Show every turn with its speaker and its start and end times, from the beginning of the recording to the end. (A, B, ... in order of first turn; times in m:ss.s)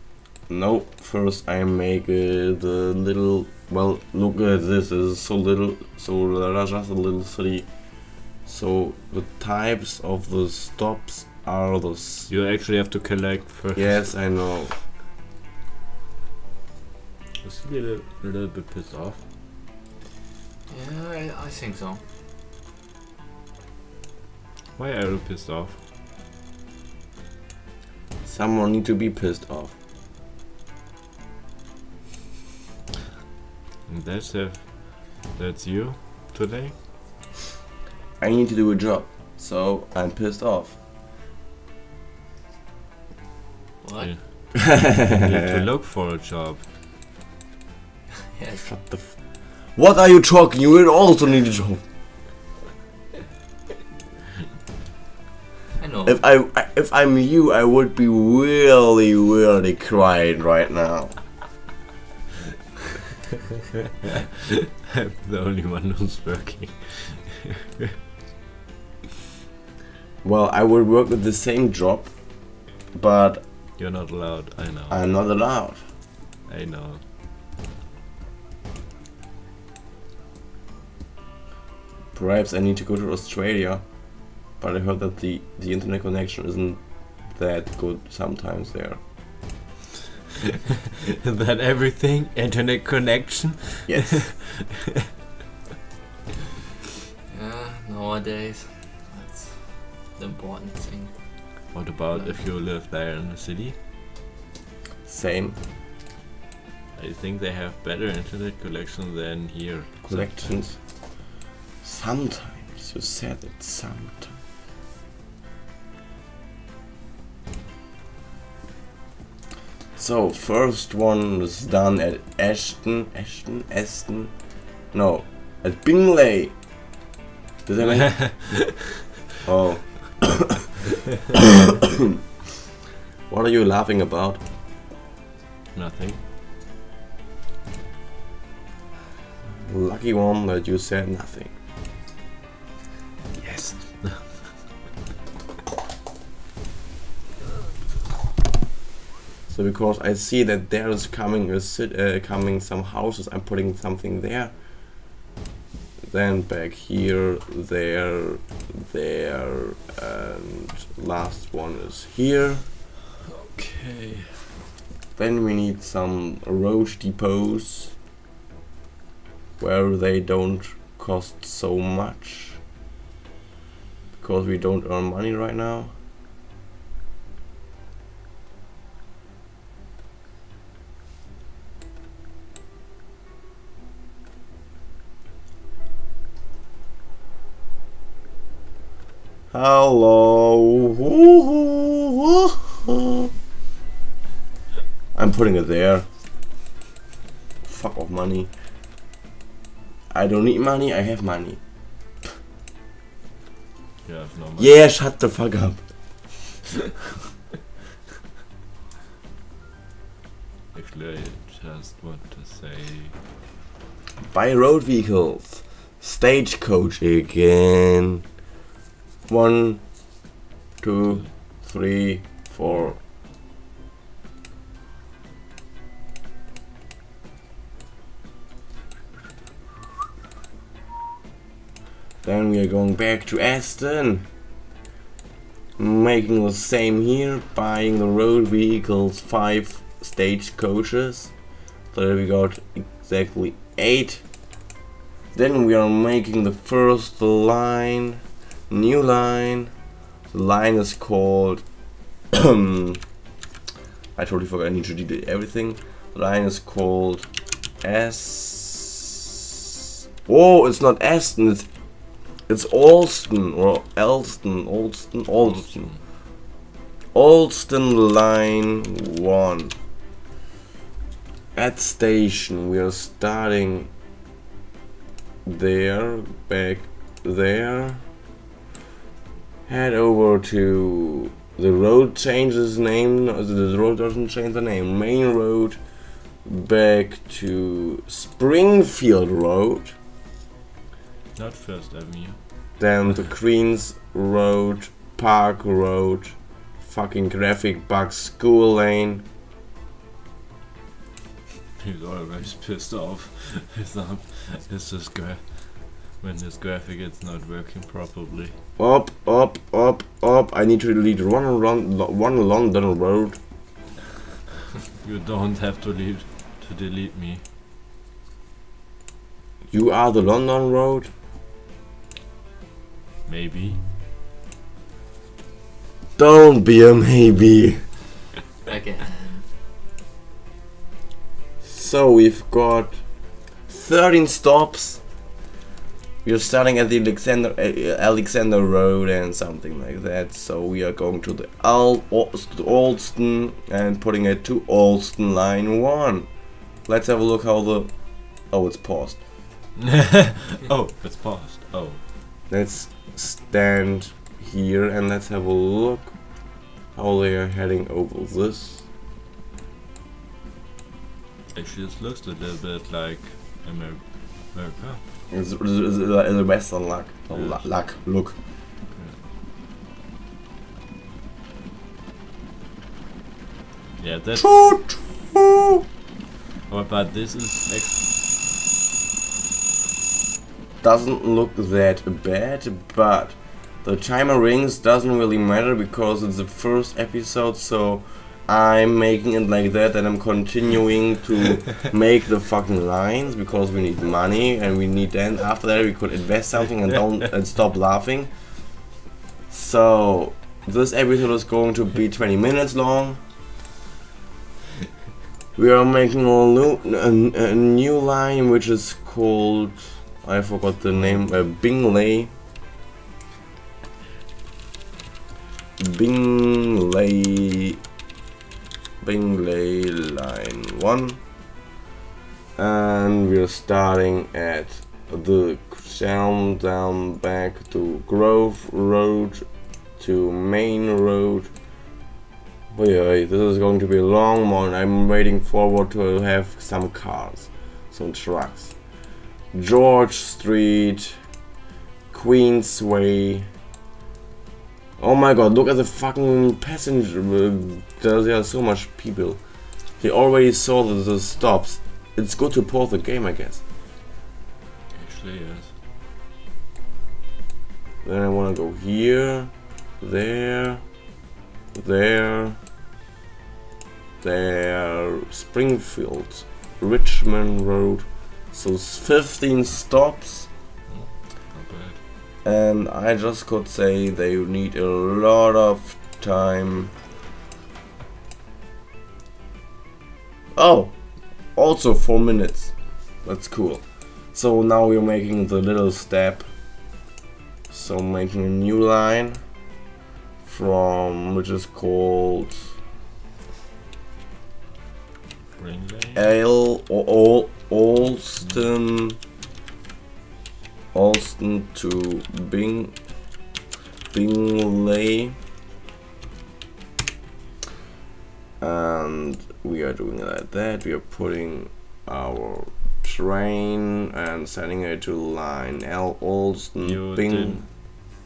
0:00.5-0:12.3 A
0:12.3-0:14.1 B
0:13.8-0:14.8 A
0:17.4-0:19.2 B
0:20.7-0:22.0 C
0:24.8-0:25.8 B
0:28.2-0:29.8 A
0:33.9-0:36.8 B
0:38.2-0:40.8 A
0:43.8-0:44.2 C
0:44.0-0:46.7 B
0:44.6-0:45.6 A
0:48.4-0:48.7 C
0:48.7-0:51.8 A
0:55.8-0:56.2 C
0:56.1-1:01.2 A
1:04.9-1:07.9 B
1:10.2-1:13.5 A
1:13.8-1:15.0 B
1:14.9-1:15.8 A
1:16.5-1:17.0 B
1:22.1-1:29.0 A
1:31.2-1:34.8 B
1:33.9-1:34.3 A
1:37.3-1:41.4 C
1:41.7-1:43.8 B
1:42.1-1:42.4 C
1:45.0-1:45.6 A
1:47.0-1:50.5 B
1:50.0-1:51.2 A
1:51.8-1:54.4 A
2:00.0-2:04.4 A
2:04.9-2:06.6 A
2:07.7-2:08.7 A
2:07.9-2:08.7 B
2:09.4-2:10.6 A
2:13.3-2:14.4 A
2:15.7-2:16.2 B
2:19.5-2:21.5 A
2:23.4-2:24.5 B
2:29.5-2:34.6 A
2:36.0-2:42.6 A
2:43.3-2:44.5 B
2:45.2-2:48.0 A
2:49.6-2:52.6 A
2:54.2-2:55.9 A
3:09.5-3:13.3 A
3:15.2-3:16.1 A
3:17.6-3:18.5 A
3:20.1-3:21.6 A
3:24.0-3:24.8 B
3:24.6-3:25.9 A
3:30.7-3:33.2 B
3:34.3-3:38.2 A
3:39.3-3:40.2 A
3:40.8-3:43.0 A
3:42.6-3:42.9 B
3:52.2-3:54.3 A
3:55.8-4:01.3 A
4:01.9-4:04.2 A
4:05.3-4:09.7 A
4:10.3-4:11.8 A
4:12.3-4:13.0 A
4:14.2-4:19.0 A
4:20.2-4:21.7 A
4:22.4-4:25.9 A
4:25.4-4:26.0 B
4:27.1-4:29.8 A
4:31.6-4:33.9 A
4:35.4-4:38.0 A
4:39.7-4:45.8 A
4:46.4-4:50.0 A
4:51.4-4:52.7 B
4:52.8-4:59.2 A
5:01.8-5:08.6 B
5:08.8-5:13.4 A
5:15.0-5:17.4 B
5:19.7-5:21.1 A
5:23.3-5:23.8 B
5:26.2-5:27.9 A
5:28.6-5:29.5 C
5:31.6-5:33.1 A
5:33.7-5:35.0 A
5:36.2-5:46.3 A
5:46.8-5:49.2 A
5:49.8-5:52.0 B
5:52.5-5:58.9 A
6:01.5-6:05.0 B
6:05.3-6:08.4 A
6:07.3-6:07.7 B
6:08.9-6:09.2 B
6:14.0-6:14.7 B
6:14.4-6:15.8 A
6:16.7-6:18.1 B
6:20.8-6:38.7 A
6:39.5-6:43.2 A
6:45.6-6:52.3 A
6:55.8-6:57.8 A
6:59.0-7:01.2 A
7:02.6-7:09.4 A
7:10.0-7:11.5 A
7:12.7-7:18.8 A
7:19.5-7:21.2 A
7:22.1-7:23.5 A
7:25.0-7:33.6 A
7:35.0-7:35.7 B
7:38.0-7:40.9 A
7:41.7-7:42.6 A
7:44.2-7:50.5 A
7:50.9-7:52.0 B
7:52.4-7:56.9 A
8:00.5-8:06.5 A
8:07.7-8:09.4 A
8:10.4-8:12.7 A
8:15.6-8:16.3 B
8:16.2-8:19.2 A
8:20.9-8:23.0 A
8:24.1-8:25.4 A
8:28.6-8:37.7 A
8:36.8-8:37.6 B